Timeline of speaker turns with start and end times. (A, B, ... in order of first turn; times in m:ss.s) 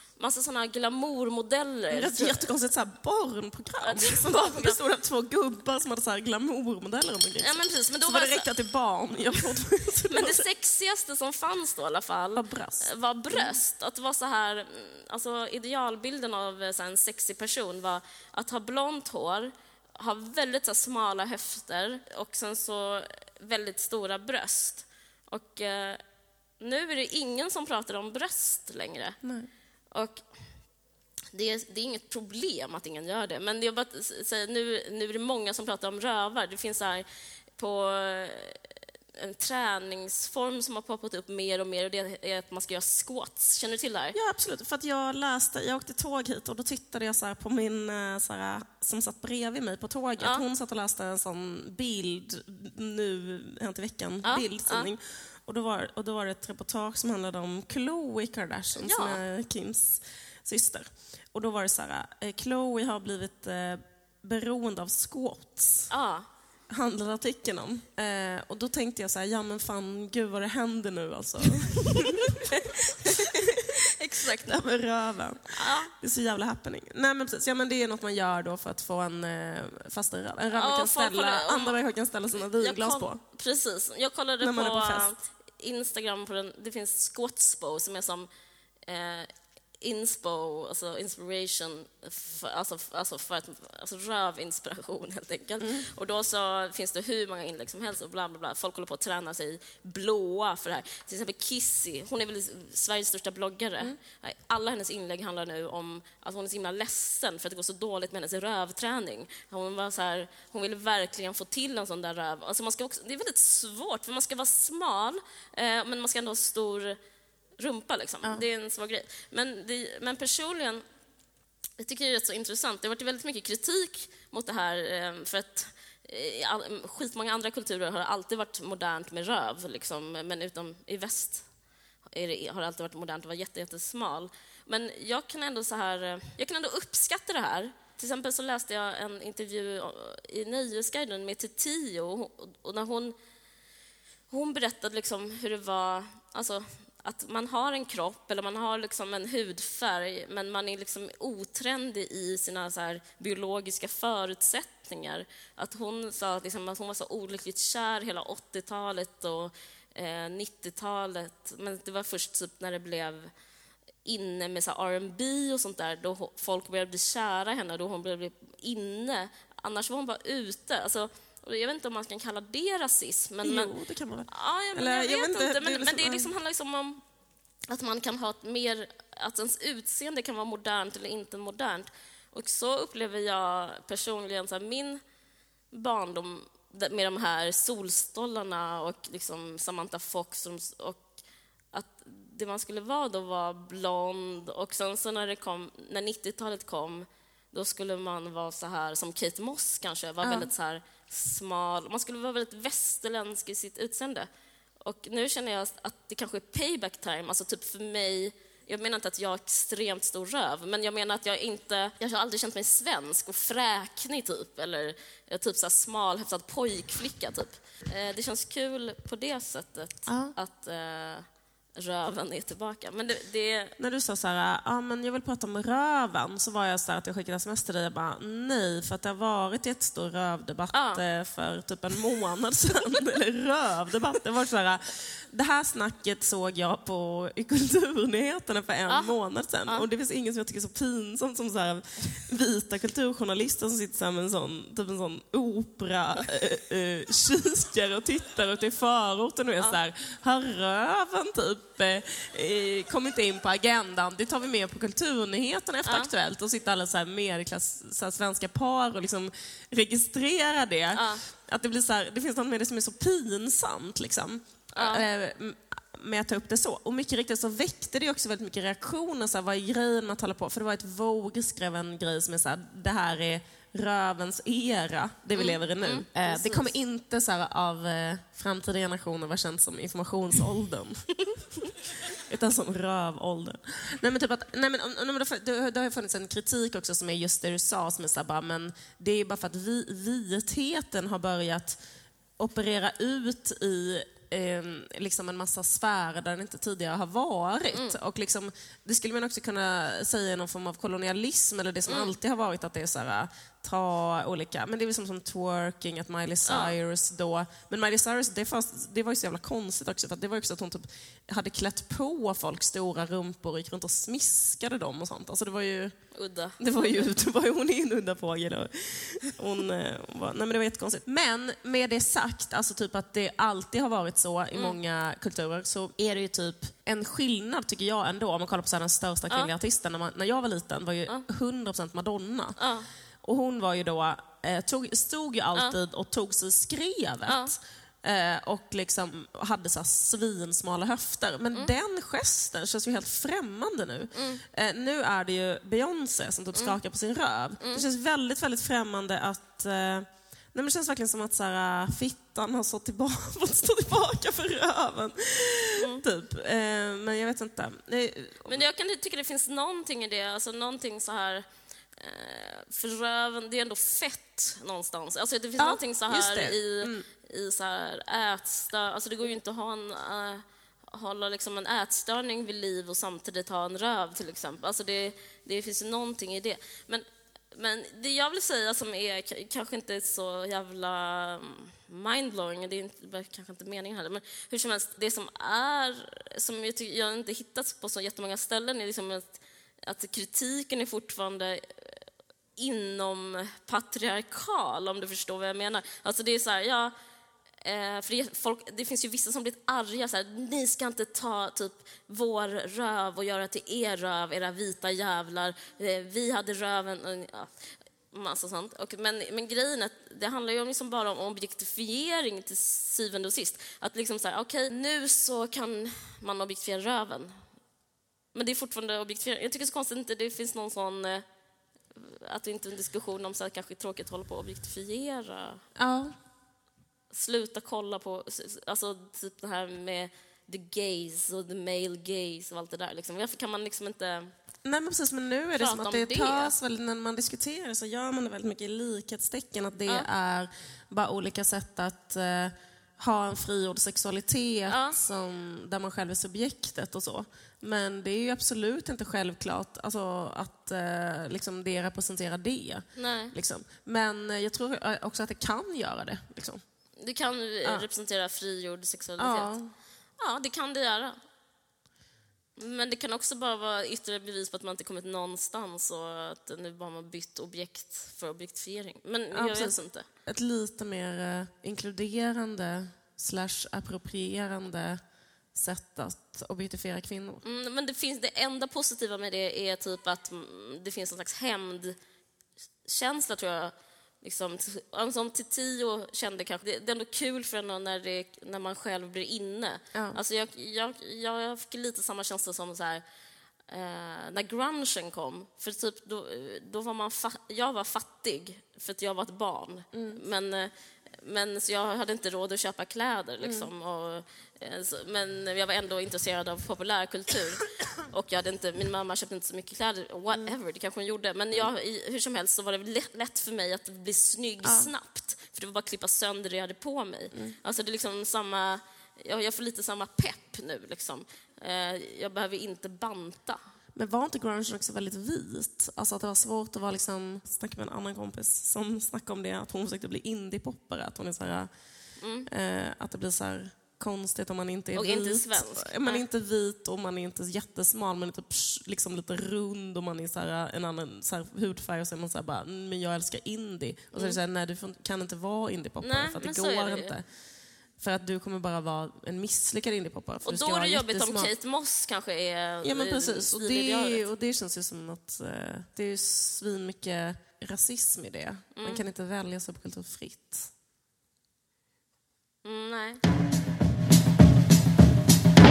0:00.2-0:02.5 A
0:01.9-0:10.5 B
0:03.8-0:04.8 A
0:07.4-0:08.5 A
0:10.1-0:26.0 A
0:12.4-0:13.6 B
0:26.6-0:29.2 A
0:29.2-0:29.5 B
0:29.9-0:30.2 A
0:31.3-0:37.0 A
0:37.6-0:44.2 A
0:44.1-1:05.9 B
0:50.2-0:50.4 A
0:54.2-0:54.9 A
0:58.8-0:59.2 A
1:05.9-1:06.3 A
1:06.7-1:13.7 B
1:11.9-1:14.6 A
1:14.3-1:23.2 B
1:15.5-1:15.9 A
1:20.5-1:21.8 A
1:22.4-1:28.3 A
1:24.4-1:25.2 B
1:28.8-1:57.0 A
1:57.6-2:00.8 A
2:01.8-2:11.5 A
2:12.1-2:23.2 A
2:24.3-2:43.3 A
2:44.0-2:53.7 A
2:53.4-2:56.3 B
2:54.3-2:57.0 A
2:57.7-3:05.0 A
3:05.7-3:11.1 A
3:11.7-3:24.3 A
3:20.2-3:20.5 B
3:24.8-3:43.8 A
3:40.1-3:40.4 B
3:43.8-4:41.1 B
3:50.7-3:51.0 A
3:58.9-3:59.2 A
4:15.9-4:16.1 A
4:20.9-4:21.2 A
4:24.7-4:25.1 A
4:35.4-4:36.7 A
4:41.6-4:51.8 B
4:52.4-5:16.0 B
5:01.9-5:02.1 A
5:06.5-5:06.8 A
5:16.2-5:17.1 A
5:16.6-5:32.6 B
5:32.6-5:32.9 A
5:33.2-5:58.6 B
5:37.3-5:37.5 A
5:44.1-5:44.4 A
5:55.8-5:56.0 A
5:58.4-6:01.4 A
6:02.0-6:32.0 A
6:05.6-6:07.1 B
6:32.6-6:36.9 A
6:37.6-6:47.5 A
6:48.1-6:57.4 A
6:58.3-7:01.2 A
7:01.9-7:05.6 A
7:05.8-7:06.2 B
7:07.1-7:14.3 A
7:14.6-7:36.6 B
7:15.6-7:16.5 A
7:24.7-7:25.0 A
7:33.0-7:33.4 A
7:37.0-7:39.5 A
7:39.2-7:39.7 B
7:40.2-7:41.2 A
7:42.6-7:50.1 A
7:49.3-7:55.0 B
7:55.5-7:57.4 B
7:57.4-8:02.0 A
8:02.8-8:13.0 A
8:09.9-8:10.2 B
8:13.7-8:43.6 A
8:19.9-8:20.2 B
8:23.4-8:23.7 B
8:34.6-8:34.9 B
8:44.0-8:51.7 B
8:52.2-8:52.5 A
8:52.5-9:07.2 B
8:55.0-8:56.2 A
9:04.1-9:04.4 A
9:06.0-9:07.2 A
9:08.0-9:11.5 B
9:10.4-9:14.2 A
9:12.8-9:20.7 B
9:18.8-9:19.0 A
9:22.6-9:23.2 A